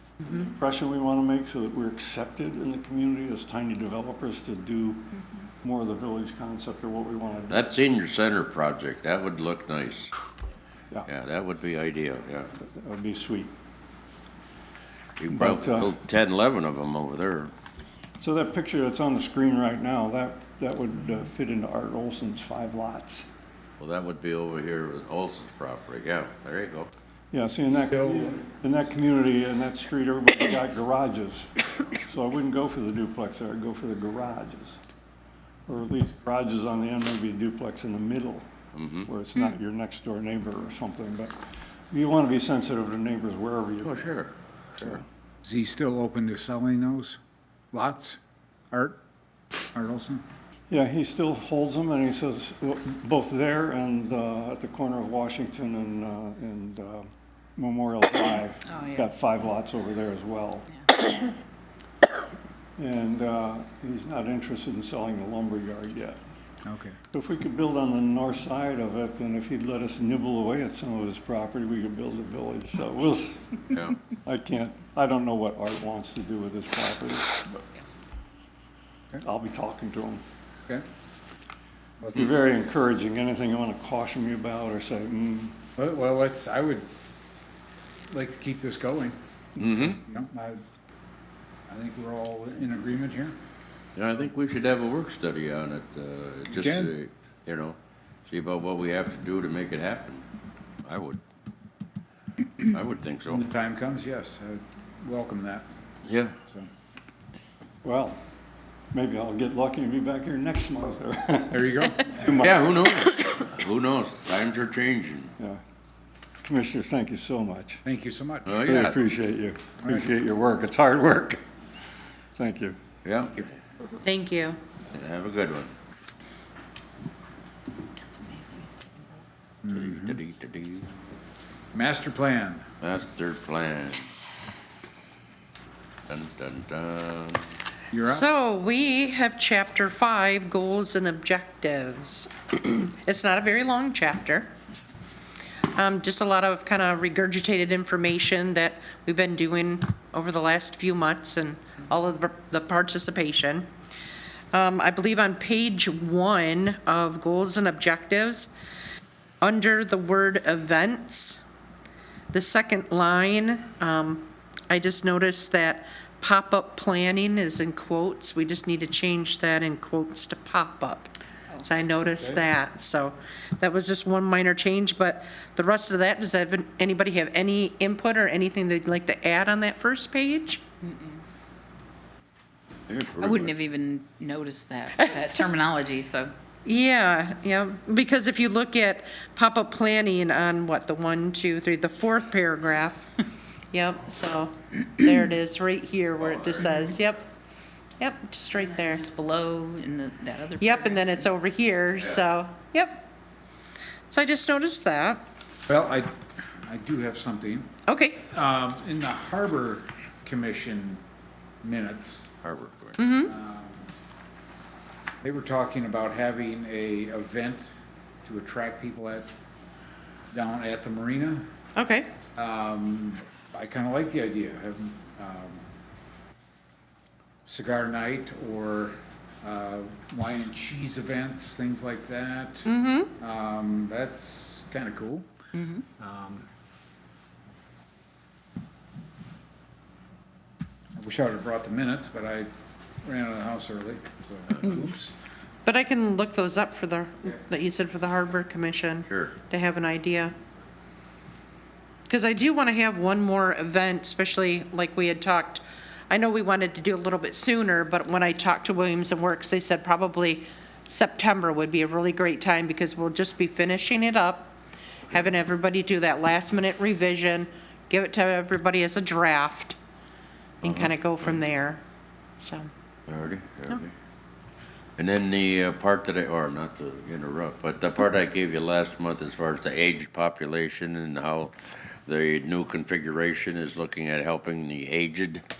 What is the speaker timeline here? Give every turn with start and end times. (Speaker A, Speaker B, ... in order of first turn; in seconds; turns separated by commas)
Speaker A: 0.3-5.1, Speaker A: 5.6-7.7, Speaker B: 7.5-10.1, Speaker B: 11.1-12.5, Speaker A: 12.6-13.5, Speaker B: 15.2-17.5, Speaker A: 15.3-15.9, Speaker A: 18.2-23.2, Speaker B: 23.8-26.9, Speaker A: 27.3-34.8, Speaker C: 27.9-28.4, Speaker A: 35.7-38.5, Speaker B: 38.7-39.1, Speaker A: 39.0-41.3, Speaker A: 41.9-44.2, Speaker B: 43.8-45.0, Speaker C: 45.4-47.2, Speaker C: 47.7-48.2, Speaker C: 48.7-49.0, Speaker C: 49.7-50.2, Speaker A: 50.7-60.8, Speaker D: 58.6-59.1, Speaker A: 62.8-66.2, Speaker C: 66.6-67.0, Speaker A: 67.1-77.6, Speaker B: 73.7-74.0, Speaker A: 79.2-80.2, Speaker C: 82.0-82.3, Speaker A: 82.1-85.6, Speaker C: 85.8-86.8, Speaker C: 88.1-89.2, Speaker B: 89.6-90.0, Speaker C: 89.7-90.6, Speaker C: 91.7-93.3, Speaker B: 93.9-97.8, Speaker C: 96.5-96.9, Speaker B: 98.3-100.2, Speaker B: 100.8-101.2, Speaker B: 102.7-103.4, Speaker C: 103.2-105.7, Speaker B: 106.0-106.4, Speaker A: 107.8-108.2, Speaker A: 108.9-112.7, Speaker C: 111.5-112.3, Speaker B: 112.4-115.3, Speaker A: 116.4-117.8, Speaker C: 117.8-118.6, Speaker B: 118.5-119.0, Speaker A: 118.6-121.4, Speaker C: 119.8-120.1, Speaker A: 122.3-122.8, Speaker B: 123.0-123.5, Speaker E: 124.0-124.6, Speaker B: 124.9-125.7, Speaker D: 128.0-128.7, Speaker C: 129.6-130.2, Speaker B: 129.7-130.9, Speaker C: 131.7-132.6, Speaker B: 132.8-134.1, Speaker B: 136.1-137.5, Speaker C: 137.9-138.2, Speaker E: 138.0-144.5, Speaker E: 145.7-153.7, Speaker E: 154.5-158.5, Speaker E: 159.4-161.4, Speaker E: 162.3-171.1, Speaker E: 171.6-180.6, Speaker D: 180.8-181.2, Speaker B: 182.9-183.5, Speaker D: 183.2-186.3, Speaker E: 186.6-197.3, Speaker B: 196.2-197.0, Speaker E: 198.0-199.1, Speaker D: 198.5-201.2, Speaker E: 200.6-203.0, Speaker B: 201.9-202.2, Speaker E: 204.1-205.2, Speaker C: 205.7-206.1, Speaker C: 206.6-211.0, Speaker E: 207.9-208.2, Speaker C: 211.6-212.3, Speaker B: 212.4-213.0, Speaker E: 213.0-213.3, Speaker C: 213.2-213.8, Speaker C: 215.2-217.7, Speaker C: 218.2-219.3, Speaker C: 220.3-221.4, Speaker E: 221.8-222.1, Speaker C: 222.3-225.6, Speaker C: 227.4-235.3, Speaker E: 232.6-233.1, Speaker D: 235.5-235.8, Speaker C: 236.0-236.4, Speaker C: 240.9-242.5, Speaker C: 243.0-245.1, Speaker E: 245.6-250.3, Speaker B: 249.1-249.3, Speaker E: 252.1-264.5, Speaker E: 265.1-269.8, Speaker E: 270.6-271.8, Speaker B: 270.6-271.4, Speaker E: 272.4-272.7, Speaker B: 273.1-273.9, Speaker B: 275.0-281.5, Speaker B: 282.1-285.4